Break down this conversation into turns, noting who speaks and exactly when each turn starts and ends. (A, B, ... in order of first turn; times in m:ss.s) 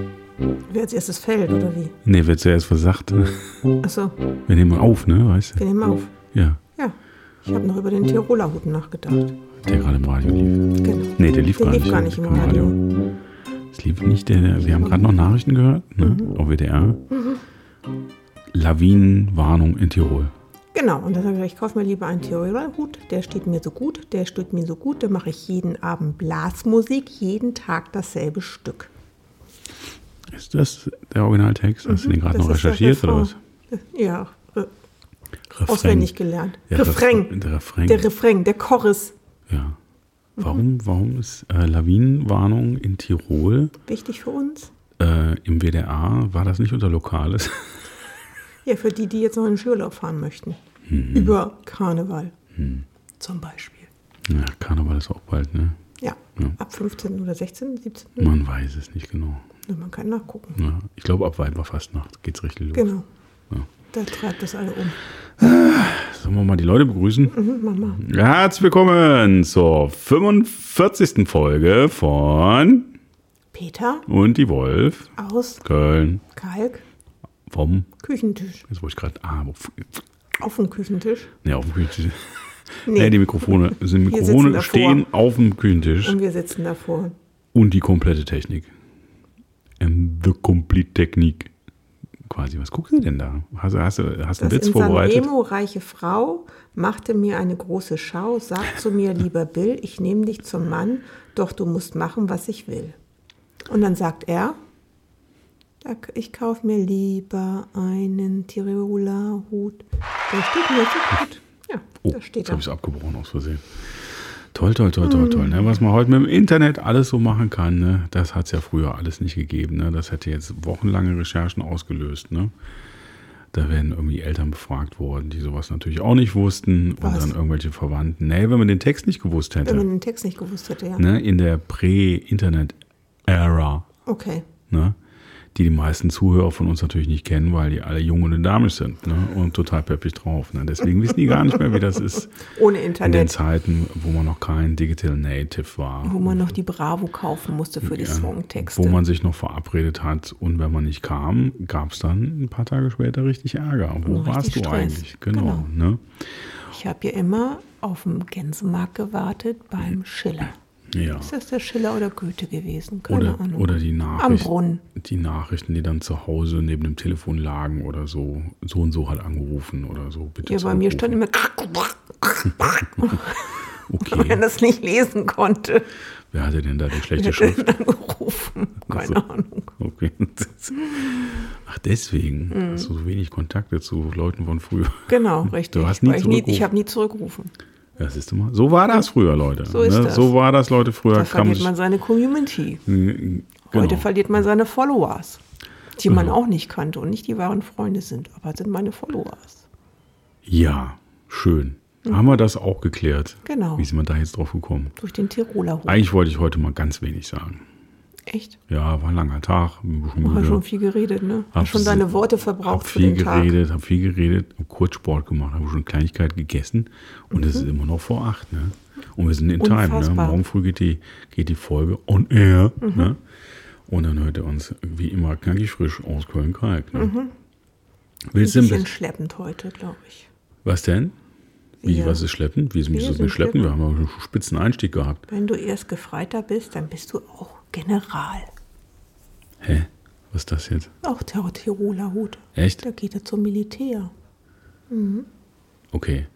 0:00.7-0:02.0 A
0:02.0-0:03.5 B
0:03.8-0:04.2 A
0:04.5-0:05.6 B
0:05.6-0:06.1 A
0:06.3-0:06.6 B
0:06.8-0:09.4 A
0:09.6-0:10.6 B
0:10.8-0:12.8 A
0:11.2-0:12.8 B
0:13.7-0:17.0 B
0:16.0-0:16.3 A
0:17.1-0:17.4 A
0:18.5-0:20.3 B
0:20.7-0:28.9 A
0:30.3-0:33.4 B
0:31.8-0:34.7 A
0:35.5-0:36.2 B
0:35.7-0:37.3 A
0:36.7-0:38.1 B
0:37.8-0:39.2 A
0:39.5-0:39.8 B
0:40.4-0:43.7 B
0:43.9-0:44.7 A
0:45.0-0:47.8 B
0:48.6-0:50.6 A
0:50.9-0:51.4 B
0:51.1-0:52.4 A
0:52.6-0:52.9 B
0:53.2-0:53.9 A
0:54.3-0:55.8 B
0:56.0-0:58.4 A
0:58.2-0:59.4 B
0:59.7-1:00.6 A
1:00.6-1:02.9 B
1:02.7-1:03.0 A
1:03.9-1:05.0 A
1:05.4-1:07.4 B
1:07.3-1:08.0 A
1:07.9-1:12.9 B
1:13.5-1:14.1 A
1:14.1-1:15.1 B
1:15.2-1:15.6 A
1:15.6-1:16.2 B
1:16.3-1:16.8 A
1:17.5-1:17.9 B
1:18.0-1:18.7 A
1:18.7-1:20.0 B
1:20.4-1:21.3 A
1:21.4-1:22.3 B
1:22.8-1:26.2 B
1:22.9-1:25.1 A
1:26.0-1:27.2 A
1:27.5-1:28.7 B
1:29.8-1:31.5 B
1:32.2-1:35.3 B
1:34.4-1:43.0 A
1:43.7-1:44.6 A
1:45.8-1:52.6 A
1:52.0-2:02.5 B
1:55.0-1:55.7 A
2:03.5-2:09.9 B
2:07.0-2:07.3 A
2:09.6-2:11.1 A
2:11.0-2:13.9 B
2:14.1-2:14.5 A
2:14.7-2:15.0 B
2:15.5-2:22.3 B
2:22.4-2:23.4 A
2:23.0-2:26.5 B
2:26.0-2:29.0 A
2:27.8-2:36.1 B
2:34.1-2:35.7 A
2:36.7-2:40.6 A
2:40.9-2:41.3 B
2:41.2-2:44.8 A
2:43.1-2:51.2 B
2:50.4-2:53.5 A
2:52.6-2:53.3 B
2:53.9-2:54.4 B
2:54.0-2:55.9 A
2:56.3-2:57.7 B
2:57.1-2:59.8 A
2:58.9-2:59.2 B
2:59.8-3:06.7 B
3:00.8-3:01.3 A
3:02.5-3:02.9 A
3:05.1-3:07.5 A
3:08.0-3:11.7 B
3:09.7-3:10.3 A
3:11.1-3:12.8 A
3:12.9-3:14.1 B
3:13.7-3:15.4 A
3:16.0-3:19.6 A
3:16.1-3:16.4 B
3:20.4-3:25.0 B
3:23.4-3:23.9 A
3:25.0-3:26.0 A
3:25.9-3:27.6 B
3:28.3-3:28.6 A
3:28.7-3:30.6 B
3:30.2-3:33.5 A
3:31.6-3:32.1 B
3:32.6-3:43.2 B
3:37.3-3:37.7 A
3:39.6-3:40.4 A
3:42.8-3:43.1 A
3:43.9-3:47.1 B
3:46.9-3:47.3 A
3:48.3-3:48.9 B
3:48.4-3:50.3 A
3:50.6-3:51.2 B
3:51.8-3:52.2 A
3:51.8-3:55.2 B
3:52.9-3:53.7 A
3:55.3-3:58.5 A
3:59.6-4:00.9 B
4:01.0-4:04.1 A
4:02.6-4:02.8 B
4:04.9-4:05.3 A
4:05.9-4:06.3 B